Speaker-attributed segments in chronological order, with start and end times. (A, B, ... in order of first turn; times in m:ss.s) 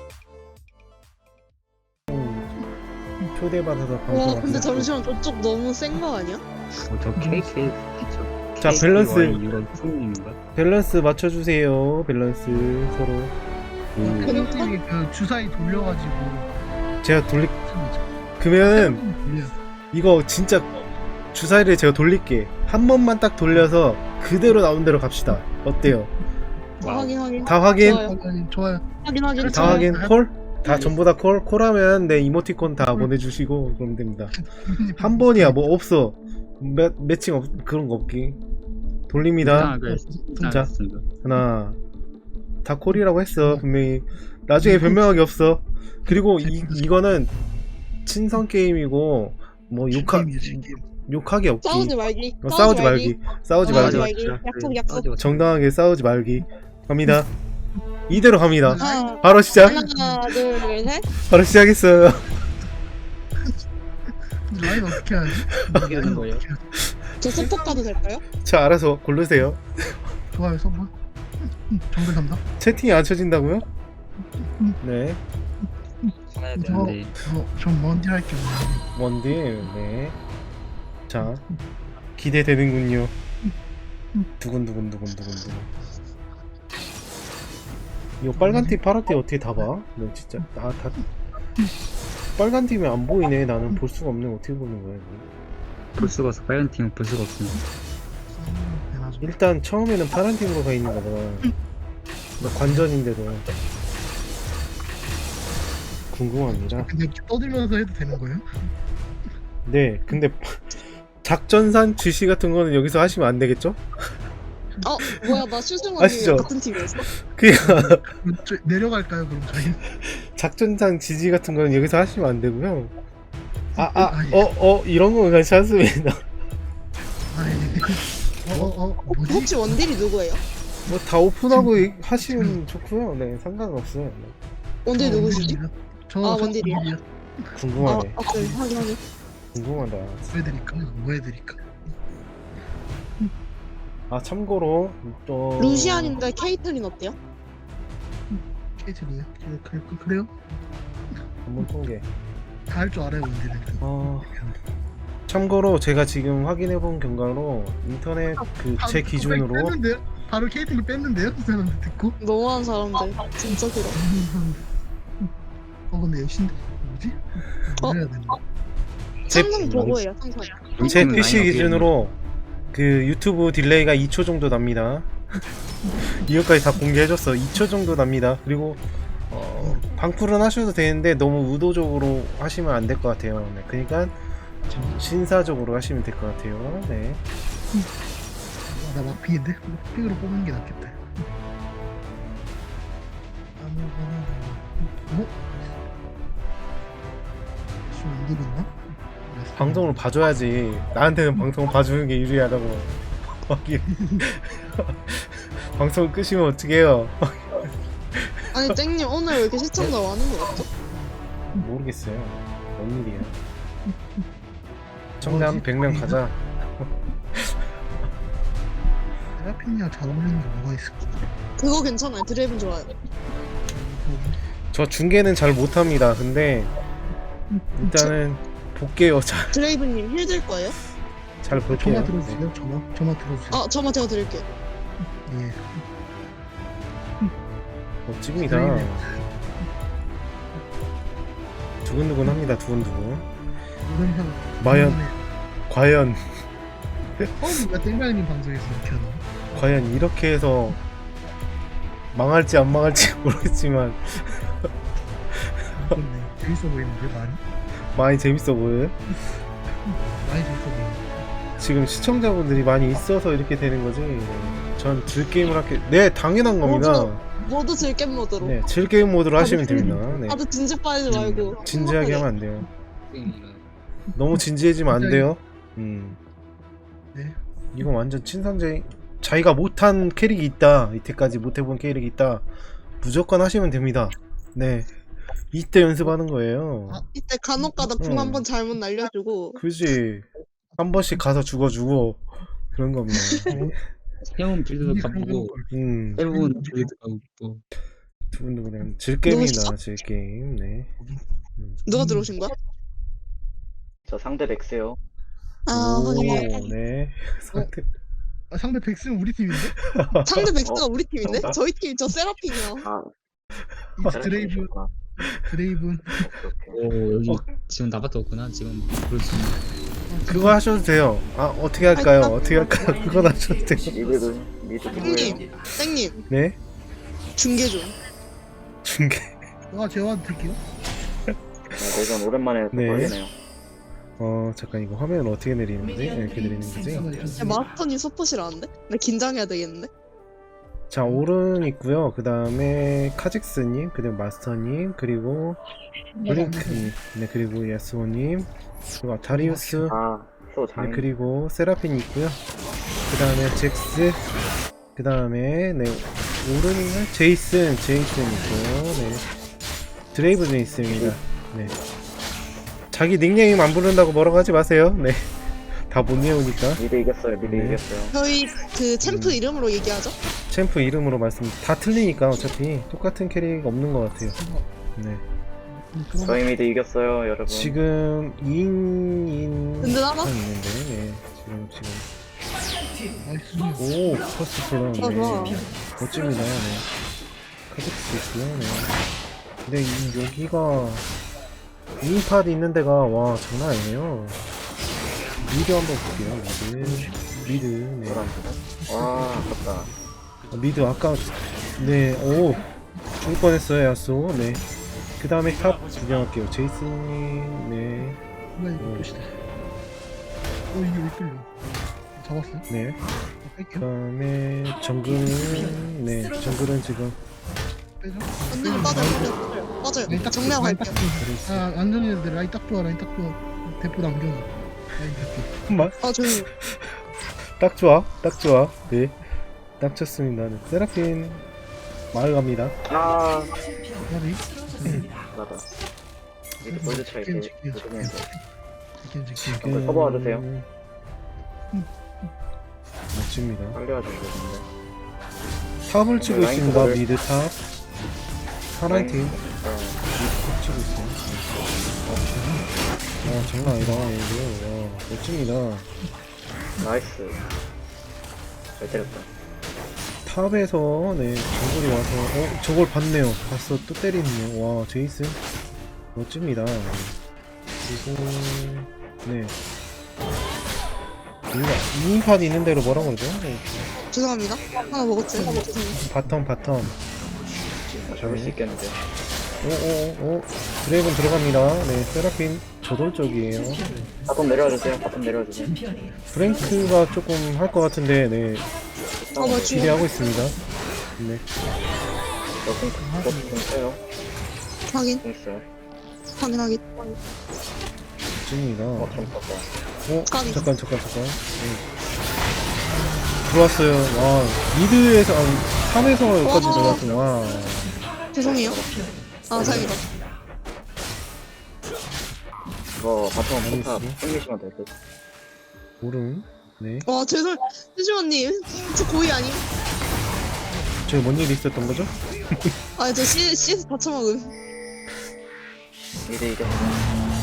0:02.1-0:02.5 A
0:03.4-0:04.9 A
0:04.1-0:06.4 B
0:06.9-0:10.4 C
0:07.2-0:07.8 D
0:08.6-0:09.4 A
0:10.6-0:13.3 A
0:14.0-0:14.4 C
0:14.0-0:16.5 D
0:14.2-0:14.8 B
0:17.0-0:17.6 A
0:17.7-0:18.0 D
0:18.4-0:19.0 A
0:18.7-0:19.5 D
0:19.9-0:26.1 A
0:26.8-0:27.2 C
0:26.8-0:28.2 B
0:27.4-0:28.1 A
0:27.5-0:30.1 D
0:29.0-0:29.9 B
0:29.5-0:34.4 A
0:30.7-0:31.0 C
0:32.8-0:33.1 D
0:34.4-0:35.7 D
0:35.0-0:38.4 A
0:39.1-0:39.8 A
0:39.4-0:41.0 C
0:39.4-0:40.7 D
0:40.5-0:41.8 A
0:42.6-0:47.3 A
0:42.9-0:43.6 D
0:44.6-0:45.0 D
0:46.1-0:46.9 D
0:48.0-0:50.4 A
0:49.9-0:50.8 D
0:51.1-0:54.1 A
0:51.6-0:55.1 B
0:53.6-0:54.0 D
0:53.7-0:55.5 C
0:55.2-0:57.3 A
0:58.1-0:59.8 A
0:58.6-1:00.3 D
0:58.8-1:01.1 B
1:01.2-1:02.3 A
1:04.4-1:06.7 D
1:05.5-1:06.1 A
1:05.7-1:06.4 C
1:07.2-1:08.2 B
1:07.4-1:07.8 D
1:08.4-1:09.6 A
1:10.3-1:12.4 D
1:12.6-1:13.6 A
1:14.4-1:14.8 D
1:14.8-1:15.2 A
1:16.0-1:18.8 D
1:16.3-1:17.2 C
1:19.0-1:20.2 A
1:21.1-1:21.4 A
1:21.2-1:21.6 D
1:22.2-1:23.1 A
1:24.4-1:25.7 A
1:28.2-1:31.0 A
1:28.4-1:28.8 D
1:32.4-1:35.2 A
1:36.0-1:37.6 C
1:38.3-1:39.4 D
1:39.2-1:41.5 A
1:42.4-1:43.5 A
1:42.4-1:42.9 D
1:46.1-1:46.9 A
1:46.5-1:48.5 D
1:49.6-1:53.8 A
1:54.8-1:57.0 B
1:56.0-1:56.5 A
1:57.0-1:58.1 A
1:57.6-1:59.8 D
2:00.0-2:02.9 A
2:03.8-2:04.5 D
2:03.8-2:06.2 A
2:07.3-2:09.8 D
2:09.3-2:10.4 B
2:10.9-2:14.4 A
2:11.5-2:12.6 D
2:14.9-2:15.6 B
2:15.0-2:18.8 D
2:16.2-2:16.8 B
2:17.6-2:18.2 A
2:17.8-2:19.0 B
2:19.5-2:20.3 A
2:20.3-2:21.6 D
2:24.1-2:26.2 A
2:25.6-2:27.2 B
2:28.3-2:30.3 D
2:31.4-2:32.1 A
2:32.7-2:34.6 D
2:33.8-2:34.4 A
2:35.3-2:39.8 A
2:38.4-2:42.2 D
2:42.2-2:44.0 B
2:43.9-2:44.6 D
2:45.9-2:48.4 D
2:49.3-2:51.4 B
2:49.3-2:50.0 A
2:50.8-2:51.9 C
2:50.8-2:52.1 A
2:52.7-2:55.2 A
2:56.0-3:04.2 A
3:04.7-3:07.2 A
3:08.7-3:11.0 D
3:13.6-3:15.8 D
3:17.9-3:18.8 D
3:19.3-3:20.0 D
3:19.6-3:27.6 A
3:23.9-3:24.2 D
3:28.1-3:28.8 A
3:28.5-3:30.7 B
3:30.9-3:31.7 D
3:31.5-3:33.4 A
3:35.2-3:36.2 D
3:35.2-3:37.6 A
3:39.4-3:41.3 D
3:41.6-3:42.9 B
3:43.7-3:44.4 D
3:44.7-3:46.7 A
3:47.8-3:49.6 A
3:49.5-3:50.8 B
3:51.4-3:52.4 A
3:51.5-3:53.6 D
3:53.5-3:54.5 B
3:55.2-3:55.8 D
3:58.1-3:59.1 A
3:58.4-3:59.2 D
4:01.8-4:03.3 A
4:03.8-4:05.3 D
4:04.6-4:05.0 A
4:05.7-4:06.3 A
4:07.4-4:09.4 D
4:09.5-4:10.8 A
4:12.1-4:14.7 A
4:15.8-4:17.4 D
4:17.9-4:19.1 A
4:20.2-4:21.2 D
4:21.6-4:27.2 A
4:26.6-4:28.6 B
4:28.4-4:30.4 A
4:29.4-4:32.3 B
4:29.8-4:30.3 D
4:31.3-4:31.5 C
4:31.6-4:32.7 A
4:33.1-4:33.6 C
4:34.2-4:36.2 A
4:34.9-4:35.3 D
4:37.7-4:42.5 A
4:43.0-4:44.9 A
4:45.5-4:47.0 A
4:46.9-4:48.0 D
4:47.2-4:49.6 B
4:48.0-4:48.5 A
4:49.6-4:53.6 A
4:53.5-4:53.8 D
4:54.4-4:55.6 C
4:54.8-4:55.7 D
4:55.7-4:56.3 A
4:56.2-4:57.6 C
4:56.3-4:56.9 D
4:58.3-5:00.9 A
4:59.3-4:59.7 B
5:01.0-5:02.3 D
5:01.6-5:01.8 A
5:01.8-5:02.6 B
5:04.1-5:05.0 E
5:05.7-5:06.7 B
5:05.7-5:07.9 A
5:08.5-5:09.8 D
5:09.9-5:10.5 A
5:10.2-5:12.9 B
5:10.6-5:11.6 E
5:12.8-5:13.1 E
5:14.0-5:14.7 D
5:14.0-5:14.9 E
5:15.4-5:16.2 D
5:16.1-5:16.8 E
5:16.7-5:19.6 C
5:20.1-5:20.6 D
5:20.3-5:24.0 A
5:22.0-5:22.4 B
5:23.9-5:25.5 E
5:25.0-5:26.2 B
5:25.0-5:25.4 D
5:26.3-5:26.6 A
5:27.4-5:28.0 B
5:28.8-5:29.4 A
5:29.7-5:30.6 D
5:31.8-5:33.3 E
5:32.7-5:33.2 A
5:34.2-5:37.1 A
5:36.9-5:37.6 D
5:37.4-5:39.9 B
5:40.9-5:45.6 A
5:41.0-5:41.3 D
5:46.2-5:46.9 D
5:46.3-5:48.5 A
5:49.0-5:50.0 A
5:49.3-5:49.9 D
5:49.9-5:51.2 E
5:50.8-5:52.4 A
5:53.1-5:54.2 A
5:55.0-5:59.3 A
6:00.1-6:01.8 A
6:00.8-6:01.2 E
6:02.9-6:06.8 A
6:06.8-6:08.2 E
6:07.4-6:07.8 A
6:08.1-6:10.1 B
6:09.0-6:09.4 A
6:10.5-6:14.4 A
6:14.4-6:14.7 D
6:15.0-6:15.2 A
6:15.7-6:16.5 D
6:16.2-6:17.8 E
6:17.5-6:22.1 A
6:19.8-6:20.3 B
6:23.2-6:23.9 D
6:23.8-6:26.9 A
6:25.0-6:25.6 B
6:27.7-6:28.9 A
6:29.7-6:31.1 A
6:32.0-6:34.4 A
6:35.4-6:38.2 A
6:36.8-6:37.6 D
6:38.0-6:39.9 E
6:38.8-6:40.0 D
6:40.5-6:42.6 A
6:42.2-6:43.1 D
6:43.2-6:44.6 A
6:45.2-6:48.2 A
6:48.6-6:49.3 D
6:48.8-6:49.2 A
6:50.7-6:51.5 D
6:52.2-6:52.6 D
6:52.7-6:53.0 A
6:53.4-6:53.9 D
6:53.8-6:57.2 A
6:58.0-6:59.3 D
6:58.5-7:01.0 B
6:58.8-6:59.3 A
7:00.1-7:05.9 D
7:00.1-7:01.7 A
7:05.7-7:07.0 A
7:06.0-7:06.5 B
7:07.6-7:09.2 A
7:09.8-7:11.5 A
7:12.1-7:12.8 A
7:12.9-7:13.5 E
7:14.1-7:15.1 D
7:15.3-7:15.6 E
7:16.6-7:18.3 E
7:16.6-7:18.4 D
7:19.0-7:19.7 D
7:19.4-7:20.7 A
7:19.6-7:20.4 E
7:23.1-7:23.8 A
7:23.7-7:24.7 E
7:25.9-7:27.6 A
7:26.2-7:27.0 E
7:28.7-7:29.4 A
7:28.9-7:30.0 E
7:30.2-7:31.6 A
7:32.3-7:32.6 D
7:33.2-7:34.1 D
7:33.2-7:35.9 A
7:36.8-7:37.4 E
7:38.8-7:39.3 E
7:40.3-7:45.4 A
7:46.2-7:47.2 A
7:47.8-7:49.5 A
7:51.5-7:53.9 A
7:54.0-7:56.1 B
7:56.0-7:57.0 A
7:58.1-7:59.0 E
7:58.2-7:58.6 A
7:59.6-8:03.8 A
8:03.8-8:04.3 D
8:04.3-8:05.8 E
8:06.3-8:08.7 A
8:09.3-8:09.9 E
8:09.4-8:10.0 B
8:09.7-8:10.6 A
8:11.2-8:11.4 A
8:12.6-8:14.0 E
8:13.0-8:13.6 D
8:14.9-8:15.2 B
8:15.2-8:15.6 E
8:16.4-8:17.2 B
8:18.4-8:19.3 A
8:19.0-8:19.7 E
8:20.1-8:21.8 A
8:20.3-8:20.7 B
8:22.8-8:23.5 D
8:23.5-8:28.0 A
8:26.4-8:27.0 B
8:28.3-8:28.8 B
8:28.4-8:30.0 E
8:29.5-8:30.0 B
8:33.0-8:34.9 E
8:33.6-8:34.2 A
8:36.0-8:37.1 A
8:37.0-8:39.6 B
8:40.7-8:41.1 D
8:41.1-8:42.7 A
8:43.0-8:44.5 B
8:46.3-8:47.1 E